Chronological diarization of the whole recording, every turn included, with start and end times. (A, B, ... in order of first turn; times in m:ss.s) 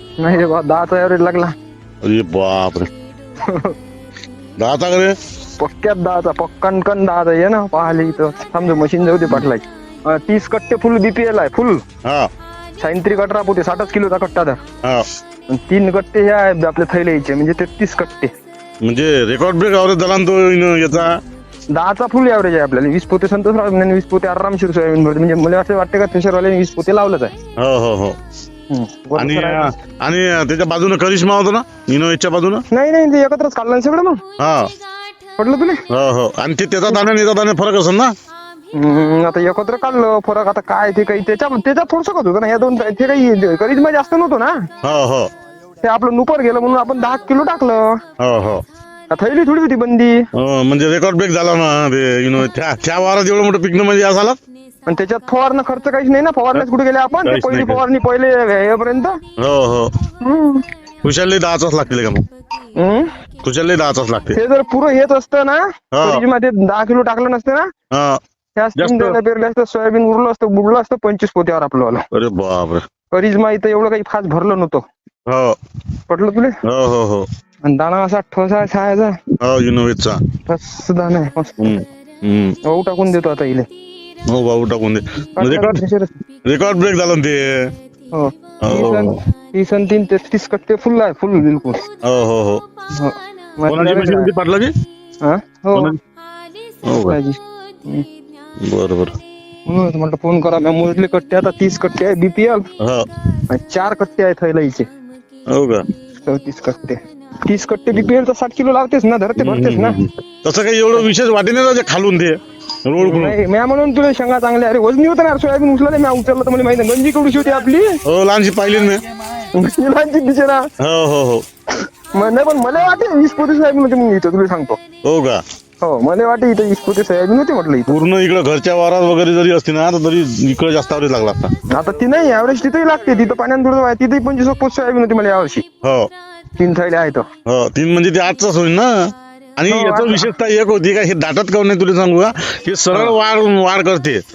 0:00.2-0:01.5 A
0:02.0-0:02.9 B
0:03.4-0:03.7 A
0:04.6-0:05.1 B
0:05.6-0:11.8 A
0:12.8-0:14.6 A
0:15.5-0:18.3 A
0:18.8-0:21.2 B
0:21.7-0:27.3 A
0:27.6-0:28.2 B
0:28.7-0:29.7 A
0:29.2-0:32.6 B
0:32.7-0:34.2 A
0:34.4-0:34.7 B
0:35.4-0:35.8 A
0:35.9-0:38.1 B
0:38.7-0:44.6 A
0:44.8-0:45.3 B
0:45.8-0:48.0 A
0:48.2-0:48.6 B
0:49.1-0:50.2 A
0:50.3-0:54.4 B
0:54.9-0:59.2 A
0:57.2-0:57.8 B
0:59.4-0:59.9 B
1:00.2-1:00.6 A
1:01.0-1:02.2 B
1:02.8-1:03.1 A
1:03.4-1:04.4 B
1:04.3-1:07.7 A
1:05.9-1:06.2 B
1:07.9-1:08.2 B
1:08.6-1:12.0 A
1:08.8-1:09.2 B
1:12.1-1:12.8 B
1:13.1-1:14.8 A
1:15.3-1:15.5 B
1:16.1-1:16.6 A
1:16.6-1:17.2 B
1:17.6-1:19.2 A
1:19.4-1:20.2 B
1:20.5-1:21.6 A
1:21.6-1:22.5 B
1:22.6-1:23.7 A
1:24.3-1:25.8 B
1:25.4-1:26.1 A
1:26.5-1:27.5 B
1:28.1-1:31.8 A
1:28.6-1:29.1 B
1:32.0-1:32.6 B
1:33.0-1:34.3 A
1:33.7-1:34.7 B
1:35.2-1:35.9 A
1:36.8-1:37.2 B
1:37.1-1:38.0 A
1:38.6-1:39.1 B
1:39.7-1:42.6 A
1:43.5-1:44.9 A
1:45.5-1:45.8 B
1:46.3-1:50.0 A
1:49.4-1:53.3 B
1:53.0-1:58.0 A
1:58.0-1:59.0 B
1:59.5-2:00.6 A
2:00.8-2:01.4 B
2:02.2-2:04.8 A
2:05.0-2:05.4 B
2:05.8-2:07.9 A
2:07.9-2:11.5 B
2:11.7-2:15.6 A
2:16.6-2:17.2 A
2:17.5-2:18.9 B
2:19.6-2:24.2 B
2:19.7-2:20.3 A